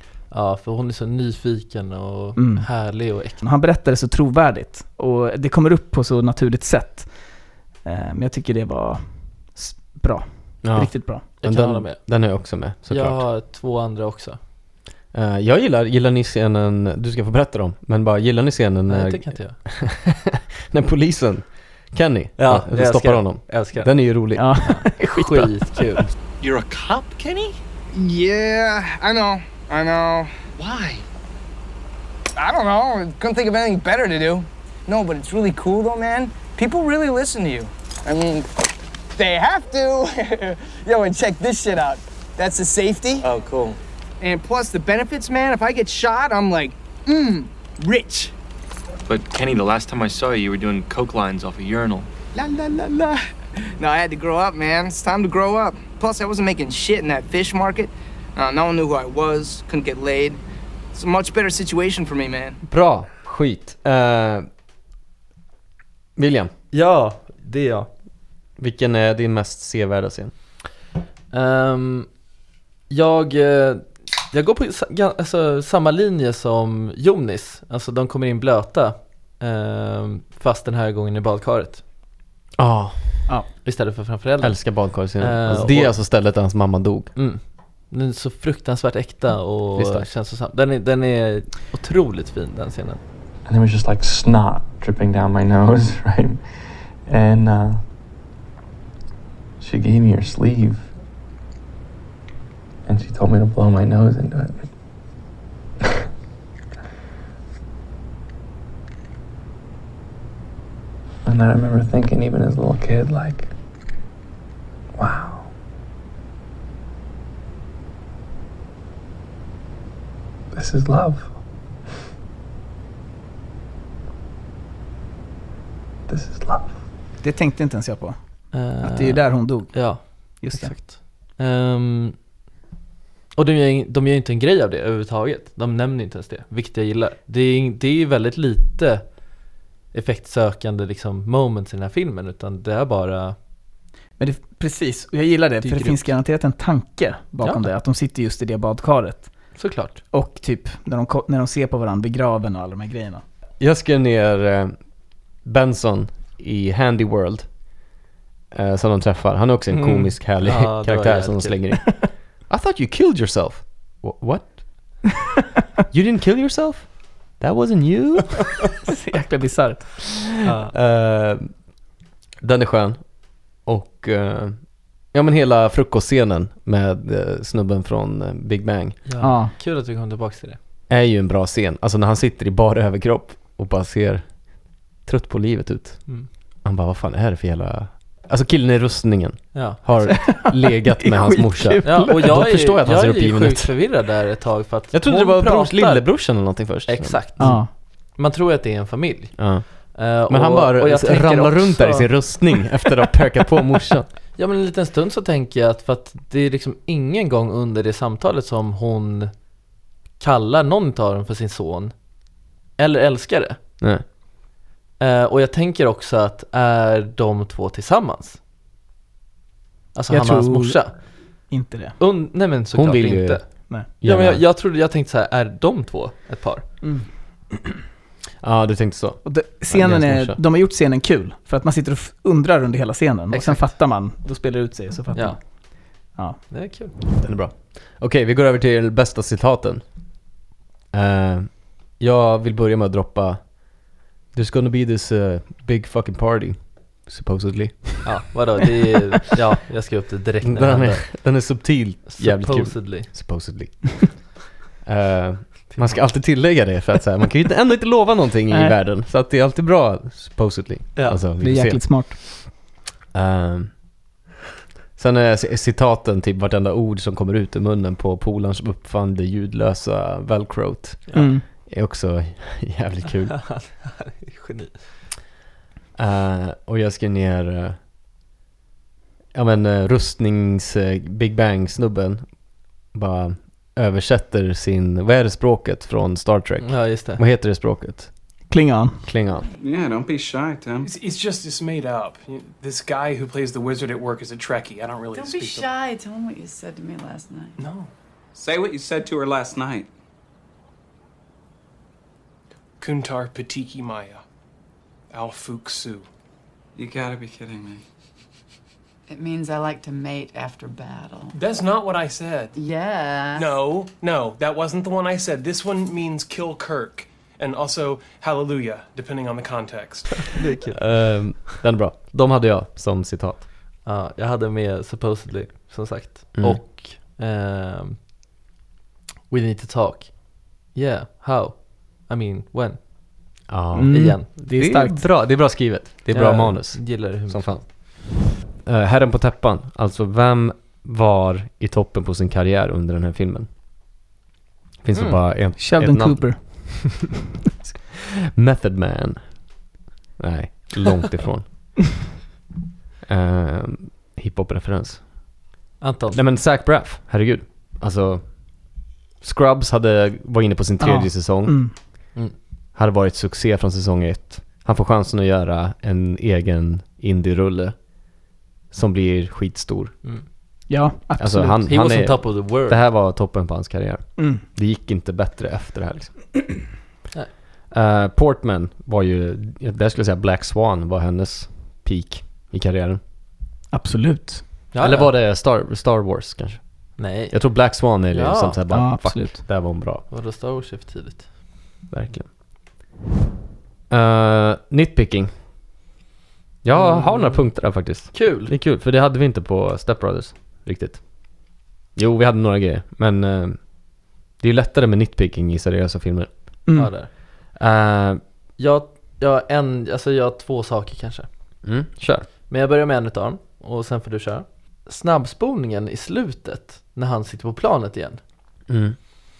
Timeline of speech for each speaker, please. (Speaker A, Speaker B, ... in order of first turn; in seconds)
Speaker A: 0.3-3.4, 11.4-12.1, 12.9-14.4, 18.9-19.6, 22.4-24.1, 24.6-26.0, 66.7-67.9, 71.3-72.1, 72.9-81.8, 83.6-86.0, 87.2-93.0, 128.5-132.2, 133.3-139.2, 139.9-143.3, 145.6-146.1, 147.4-147.7, 149.6-150.0, 159.7-161.8, 170.4-170.7, 179.0-180.6, 189.5-190.1, 191.8-202.6, 204.3-209.3, 210.2-212.0, 212.8-213.6, 215.0-218.4, 219.9-221.0, 222.0-223.5, 224.0-226.8, 233.3-233.8, 235.1-235.4, 236.5-236.9, 248.0-251.2, 252.1-253.1, 255.7-256.1, 260.9-261.2, 273.3-274.8, 286.6-287.2, 320.3-321.4, 323.8-328.0, 329.3-334.3, 336.1-337.7, 344.9-345.2, 355.8-356.2, 371.7-372.8, 384.7-385.1, 387.0-388.6, 390.1-391.3, 396.7-398.5, 406.7-407.1, 408.6-411.3, 412.5-418.2
Speaker B: 2.4-2.8, 3.3-11.2, 24.3-25.5, 127.2-130.8, 144.2-149.3, 150.1-153.2, 168.9-170.2, 179.2-179.5, 190.1-192.5, 197.4-197.7, 220.1-220.8, 221.5-221.9, 226.8-227.7, 229.2-236.4, 258.5-258.7, 261.4-262.4, 271.1-271.4, 288.5-289.1, 333.7-335.1, 345.6-347.1, 360.8-361.7, 370.7-371.6, 374.2-374.4, 383.7-384.5, 388.7-389.4
Speaker C: 10.6-13.2, 15.1-24.5, 62.6-64.5, 66.2-66.5, 68.6-70.3, 82.6-83.3, 84.4-87.1, 89.8-90.1, 153.6-157.6, 158.5-165.0, 165.9-168.5, 170.7-171.5, 172.4-179.0, 180.9-193.7, 194.9-197.6, 199.4-204.1, 222.7-224.4, 228.4-230.4, 237.2-239.9, 240.9-243.7, 244.3-248.2, 250.4-262.4, 263.1-263.7, 265.0-273.4, 276.0-277.8, 279.3-288.1, 289.1-289.5, 320.7-323.4, 326.3-326.6, 333.5-343.5, 344.8-346.7, 348.4-349.6, 350.2-351.8, 353.1-355.3, 356.1-361.7, 362.7-367.9, 368.7-369.9, 371.2-376.4, 377.7-383.0, 384.8-390.0, 391.9-392.3, 393.9-395.3, 396.6-406.3, 407.5-408.2, 411.6-412.3, 418.7-418.9
Speaker D: 26.4-27.6, 30.6-31.0, 43.2-43.7, 49.1-52.1
Speaker E: 27.9-30.3, 32.4-38.5, 39.1-48.3, 52.3-53.2, 53.8-60.4, 60.9-62.6
Speaker F: 93.4-97.8, 99.6-100.9, 102.8-104.7, 111.2-113.5, 115.0-115.5, 120.5-121.3, 126.1-126.8
Speaker G: 289.6-290.9, 298.3-299.9, 306.8-307.8
Speaker H: 290.8-295.7, 297.6-297.9, 302.8-304.2, 305.1-306.1, 311.3-312.6, 313.3-320.2
Speaker I: 295.1-297.6, 309.1-311.4, 312.6-313.5